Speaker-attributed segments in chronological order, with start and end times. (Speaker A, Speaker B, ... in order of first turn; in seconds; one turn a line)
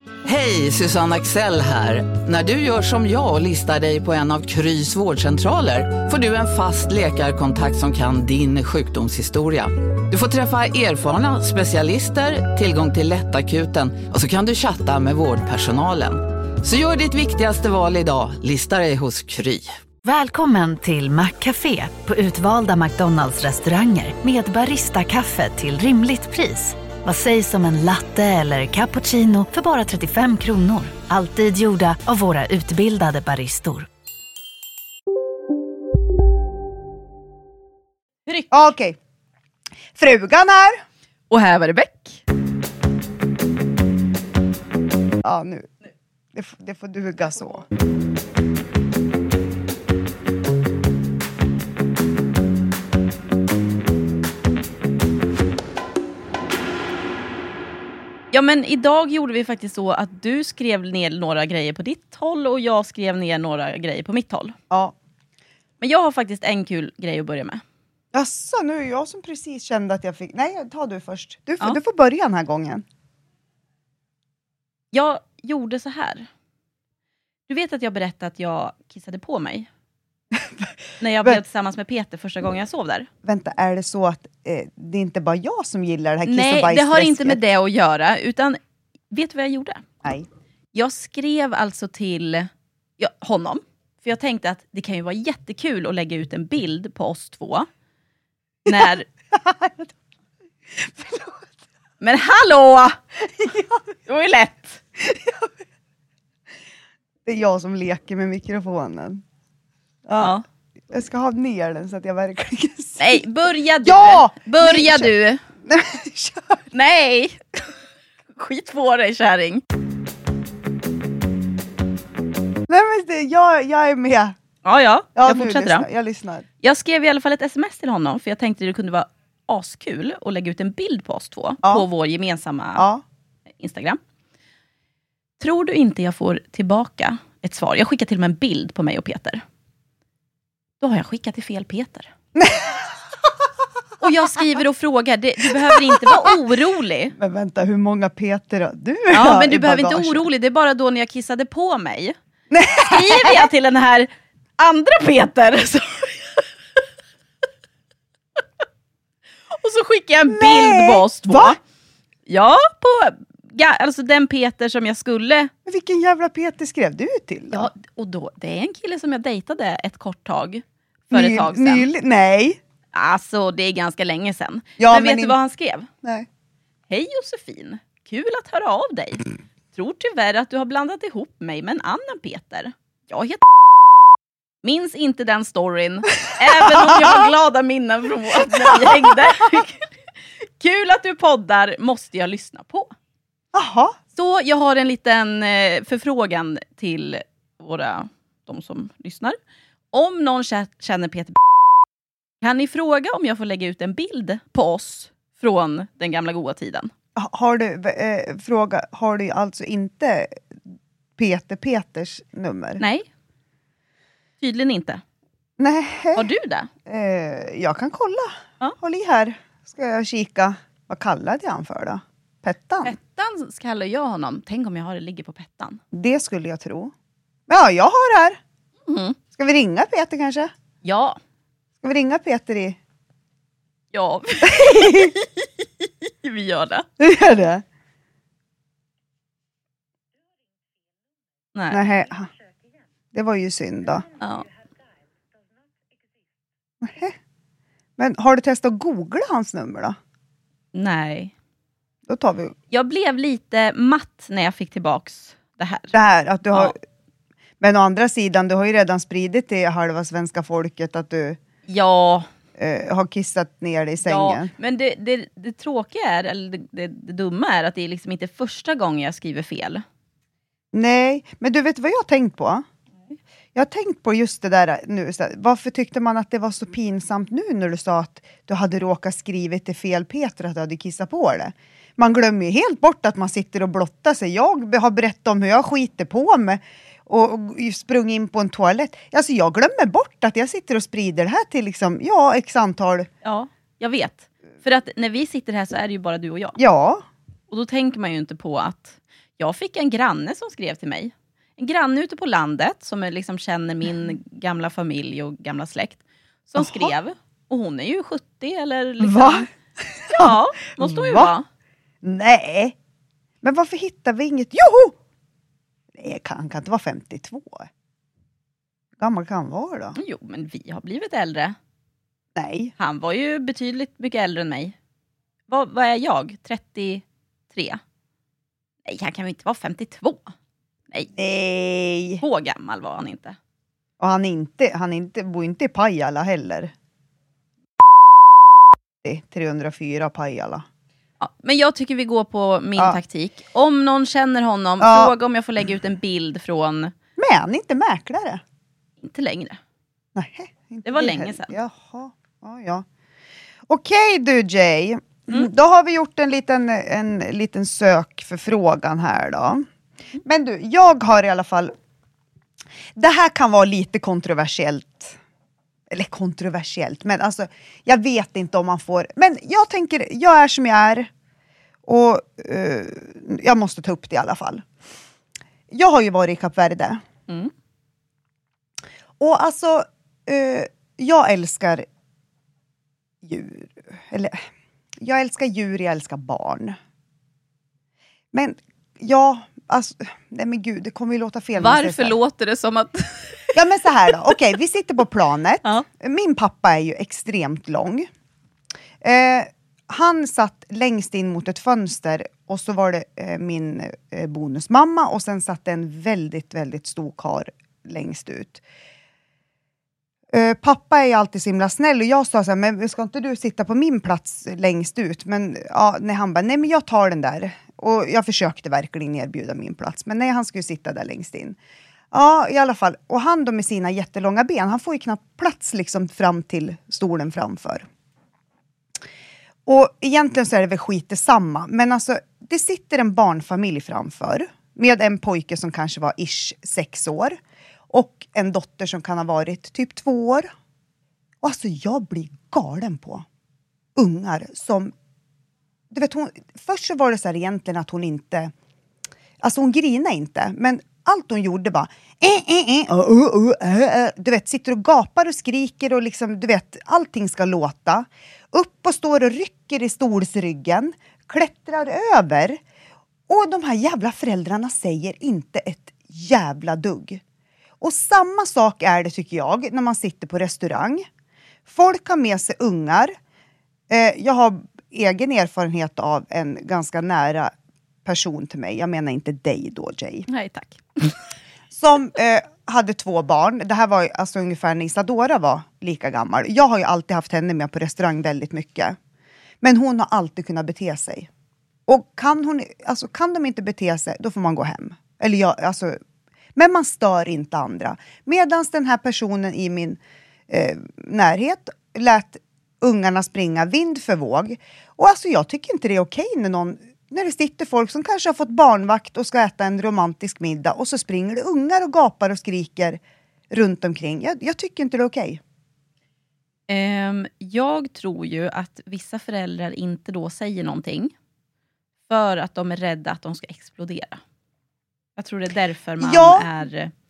Speaker A: 0.2-19.7
Speaker B: 20.1-33.9
Speaker C: 38.5-39.0
Speaker C: 40.0-40.8
Speaker D: 41.3-42.2
Speaker C: 45.2-45.7
Speaker C: 46.3-47.7
Speaker D: 58.3-64.6
Speaker D: 65.8-67.6
Speaker C: 68.1-72.8
Speaker D: 74.9-76.3
Speaker D: 77.5-79.7
Speaker C: 80.3-80.7
Speaker D: 81.0-83.1
Speaker C: 83.2-87.4
Speaker D: 86.2-88.6
Speaker D: 89.1-89.8
Speaker D: 90.7-97.7
Speaker D: 98.7-99.1
Speaker C: 99.3-99.9
Speaker C: 100.7-101.5
Speaker D: 102.0-103.0
Speaker C: 103.2-103.8
Speaker D: 104.1-104.8
Speaker C: 105.0-105.5
Speaker C: 107.2-109.2
Speaker C: 110.1-110.3
Speaker C: 110.9-113.2
Speaker D: 113.0-115.4
Speaker C: 113.8-115.1
Speaker C: 115.7-116.6
Speaker D: 116.7-117.7
Speaker D: 118.3-119.6
Speaker C: 122.7-124.3
Speaker D: 124.6-125.9
Speaker C: 125.2-126.5
Speaker D: 126.6-132.8
Speaker C: 132.8-133.0
Speaker D: 133.6-134.0
Speaker D: 135.4-139.4
Speaker D: 140.8-142.1
Speaker C: 142.3-142.8
Speaker D: 144.0-147.2
Speaker C: 145.5-146.3
Speaker C: 147.2-150.2
Speaker D: 149.1-152.2
Speaker C: 152.5-153.5
Speaker D: 152.8-156.4
Speaker D: 159.5-161.6
Speaker C: 160.3-161.6
Speaker D: 162.3-165.5
Speaker C: 165.7-167.7
Speaker D: 167.5-171.9
Speaker C: 171.1-172.6
Speaker D: 172.9-175.9
Speaker C: 174.8-175.3
Speaker D: 176.9-183.4
Speaker D: 184.6-189.8
Speaker C: 186.7-187.1
Speaker C: 188.6-189.1
Speaker D: 190.4-192.9
Speaker C: 193.5-194.0
Speaker D: 194.2-199.4
Speaker D: 199.9-201.4
Speaker D: 202.4-206.9
Speaker C: 207.2-210.4
Speaker C: 211.2-212.8
Speaker D: 212.8-213.1
Speaker D: 214.4-215.0
Speaker C: 215.6-216.3
Speaker D: 216.2-216.7
Speaker C: 216.8-223.0
Speaker D: 222.8-225.8
Speaker C: 225.9-226.9
Speaker C: 227.5-228.4
Speaker D: 228.9-229.2
Speaker C: 229.3-230.5
Speaker D: 230.8-231.2
Speaker C: 231.8-232.8
Speaker D: 233.9-236.8
Speaker C: 234.5-235.1
Speaker C: 237.0-237.6
Speaker D: 241.6-241.8
Speaker C: 241.7-242.3
Speaker C: 243.1-244.1
Speaker D: 244.2-244.5
Speaker C: 246.8-247.2
Speaker C: 248.0-250.0
Speaker D: 250.7-251.3
Speaker C: 252.1-252.6
Speaker D: 252.7-255.9
Speaker C: 255.9-256.8
Speaker C: 257.6-261.4
Speaker D: 261.7-262.3
Speaker C: 262.6-264.5
Speaker D: 264.1-269.8
Speaker C: 270.7-272.6
Speaker C: 273.6-293.1
Speaker D: 293.2-296.6
Speaker C: 296.6-297.1
Speaker D: 297.5-309.5
Speaker C: 306.6-306.9
Speaker C: 309.0-311.3
Speaker D: 310.1-311.4
Speaker C: 312.0-312.8
Speaker C: 313.4-314.9
Speaker C: 315.9-317.7
Speaker C: 319.0-320.0
Speaker D: 319.9-321.6
Speaker C: 322.4-322.7
Speaker D: 322.8-324.8
Speaker D: 325.5-327.8
Speaker D: 328.9-330.3
Speaker C: 331.1-332.2
Speaker D: 332.2-333.4
Speaker C: 334.0-336.7
Speaker C: 339.0-340.6
Speaker D: 341.2-346.9
Speaker C: 344.8-345.1
Speaker C: 347.2-348.4
Speaker D: 349.0-349.6
Speaker C: 350.1-352.9
Speaker D: 350.9-351.6
Speaker C: 353.7-359.7
Speaker C: 360.2-361.7
Speaker C: 362.9-365.2
Speaker C: 365.9-371.1
Speaker C: 371.9-374.7
Speaker C: 375.7-377.0
Speaker C: 379.2-381.9
Speaker C: 383.2-384.4
Speaker C: 385.0-386.8
Speaker C: 388.3-392.2
Speaker D: 391.6-393.6
Speaker C: 393.6-398.1
Speaker C: 399.0-408.6
Speaker C: 410.3-421.6
Speaker C: 422.1-427.9
Speaker C: 429.7-437.4
Speaker C: 437.9-440.5
Speaker C: 441.4-443.2
Speaker C: 443.9-444.9
Speaker C: 445.9-448.5
Speaker C: 449.4-462.6
Speaker C: 463.3-467.2
Speaker C: 467.8-471.1
Speaker C: 471.7-473.1
Speaker C: 473.9-477.5
Speaker C: 478.1-480.3
Speaker D: 480.3-481.2
Speaker C: 481.7-489.0
Speaker C: 489.6-491.3
Speaker C: 491.9-496.0
Speaker C: 496.6-513.0
Speaker C: 513.5-515.4
Speaker D: 516.7-521.1
Speaker D: 522.1-524.2
Speaker D: 525.2-526.9
Speaker C: 526.0-526.5